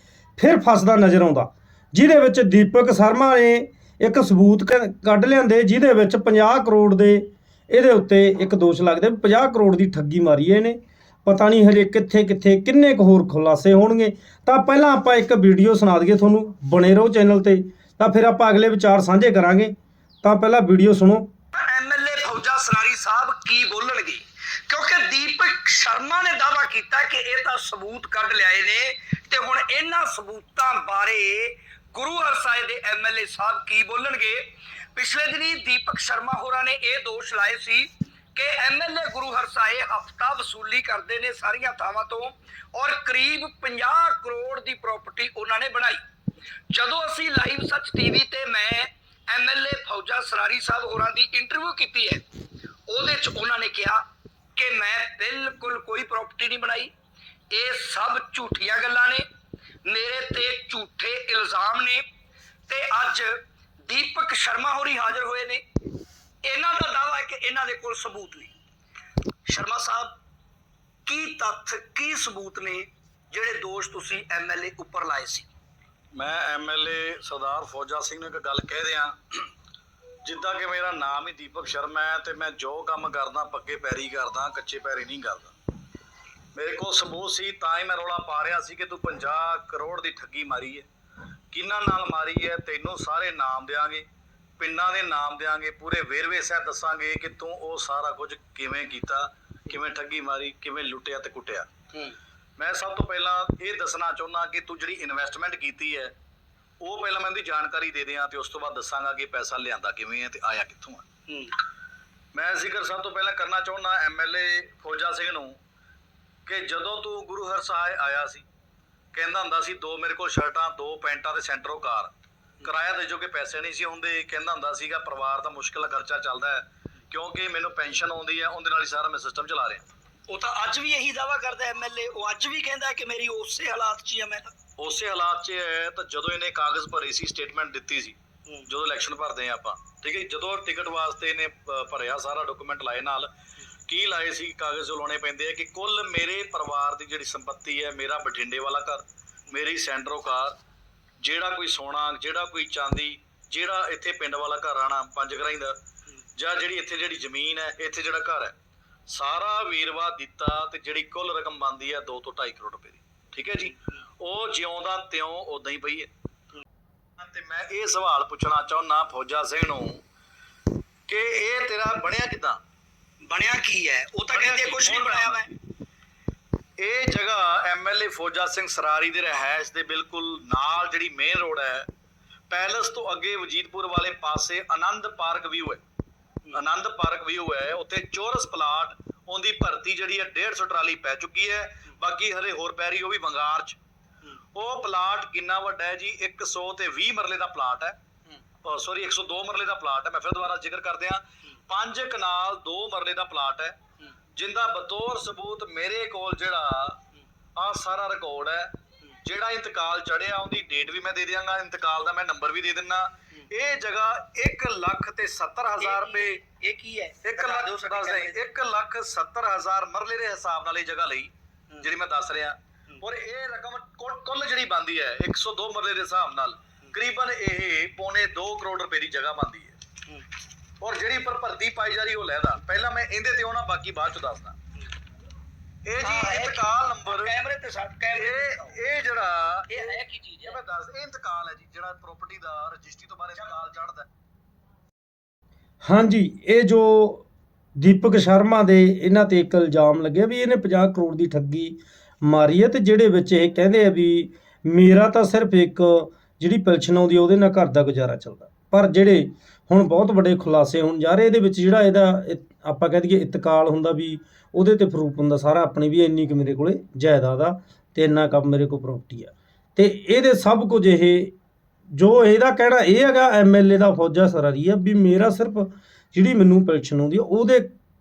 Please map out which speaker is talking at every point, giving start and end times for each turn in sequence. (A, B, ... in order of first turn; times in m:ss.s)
0:00.4-0:21.3 A
0:21.5-0:34.4 B
0:35.0-0:46.0 B
0:46.7-0:52.2 B
0:52.9-0:54.0 B
0:54.6-0:56.9 B
0:57.5-0:59.2 B
0:59.9-1:02.0 B
1:02.7-1:03.3 B
1:03.9-1:05.6 B
1:06.4-1:08.5 B
1:09.5-1:10.2 B
1:11.1-1:15.5 B
1:16.2-1:19.5 C
1:20.2-1:25.5 C
1:26.5-1:30.9 C
1:31.5-1:34.1 C
1:34.6-1:41.7 C
1:42.6-1:46.2 C
1:46.8-1:51.1 C
1:51.3-1:51.6 B
1:52.3-1:55.6 C
1:56.5-1:58.5 C
1:59.1-2:02.1 C
2:02.6-2:09.9 C
2:10.3-2:14.5 B
2:14.8-2:23.3 C
2:23.9-2:30.6 C
2:31.2-2:35.8 C
2:36.4-2:38.6 C
2:39.1-2:46.1 C
2:47.2-2:50.0 C
2:51.1-2:52.6 C
2:53.3-2:55.5 B
2:54.3-2:55.4 C
2:56.8-3:01.9 C
3:02.5-3:05.8 C
3:06.5-3:13.8 C
3:14.5-3:18.0 C
3:18.6-3:23.8 C
3:24.4-3:27.0 C
3:27.6-3:28.7 C
3:29.2-3:36.4 C
3:35.8-3:38.4 B
3:37.2-3:49.8 C
3:50.8-3:54.6 C
3:55.8-3:57.4 C
3:56.0-3:58.8 B
3:58.1-4:04.1 C
3:59.7-4:00.6 B
4:05.8-4:07.3 A
4:07.8-4:31.3 A
4:31.9-4:37.7 A